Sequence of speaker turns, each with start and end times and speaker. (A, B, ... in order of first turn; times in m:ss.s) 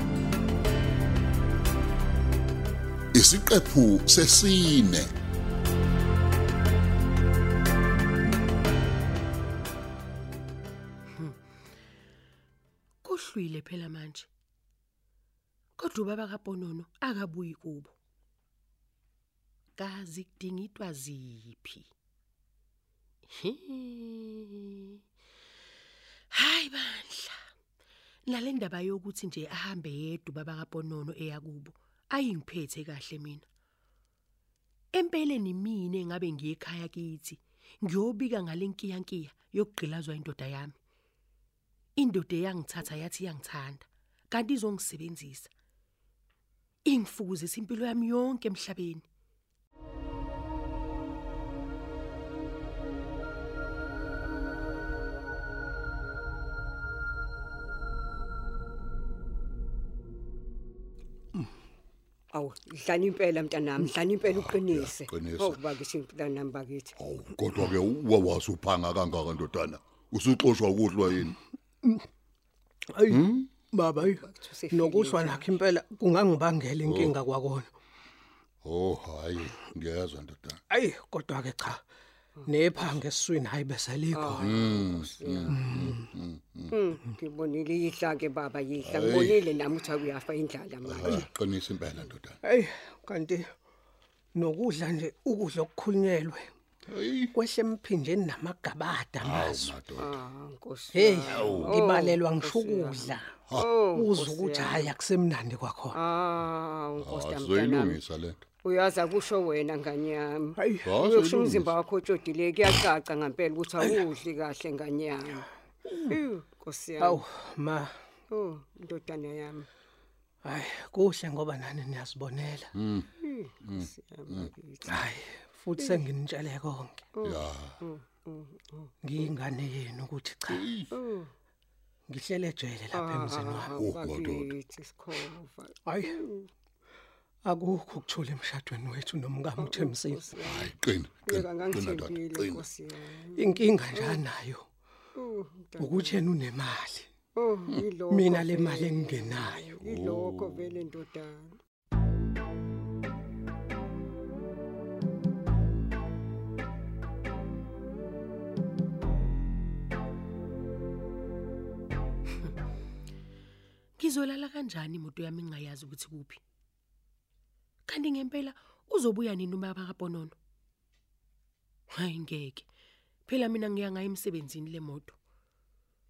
0:03.1-0:05.1 A
0:13.0-0:14.3 B
0:15.8-0:17.9 B
0:19.8-0:21.9 B
0:23.3-0:25.0 B
0:26.3-0:27.4 B
0:28.3-0:33.4 B
0:34.9-0:40.8 B
0:42.0-0:45.5 B
0:46.8-0:49.0 B
1:02.3-1:06.9 C
1:04.3-1:05.6 A
1:07.0-1:11.4 A
1:12.9-1:14.2 D
1:13.1-1:13.5 A
1:14.0-1:15.5 C
1:14.7-1:17.7 D
1:16.8-1:17.1 A
1:18.6-1:20.6 A
1:20.7-1:21.8 D
1:22.4-1:23.0 C
1:22.5-1:24.5 D
1:24.1-1:25.6 C
1:24.4-1:26.7 A
1:25.5-1:26.0 D
1:26.7-1:31.2 C
1:28.8-1:29.4 A
1:30.8-1:32.4 A
1:32.4-1:33.5 D
1:34.3-1:36.5 D
1:36.9-1:37.3 A
1:37.3-1:39.7 D
1:39.2-1:40.1 A
1:40.0-1:44.9 C
1:40.9-1:43.4 D
1:41.3-1:41.8 A
1:43.9-1:46.0 D
1:45.9-1:48.0 C
1:47.0-1:48.4 A
1:48.6-1:55.4 C
1:50.6-1:50.9 D
1:50.8-1:51.7 A
1:55.9-1:56.1 A
1:56.1-1:57.2 C
1:57.0-1:57.9 D
1:58.3-1:59.6 C
2:00.4-2:02.7 D
2:02.7-2:03.1 A
2:03.2-2:05.0 C
2:03.6-2:04.5 A
2:04.9-2:07.0 D
2:05.8-2:06.1 C
2:07.2-2:08.9 C
2:07.2-2:07.8 A
2:09.0-2:10.6 D
2:10.5-2:10.9 A
2:10.9-2:11.3 C
2:12.1-2:13.7 D
2:12.9-2:16.5 C
2:13.7-2:14.5 A
2:15.8-2:16.2 D
2:17.4-2:20.2 D
2:19.6-2:20.7 C
2:20.4-2:22.6 A
2:21.3-2:24.2 C
2:23.4-2:24.6 D
2:25.2-2:26.2 C
2:25.8-2:27.1 D
2:27.4-2:31.5 C
2:28.1-2:29.7 D
2:29.8-2:30.6 A
2:44.0-2:46.4 B
2:47.9-2:50.3 B
2:51.9-2:52.6 B
2:53.3-2:55.2 B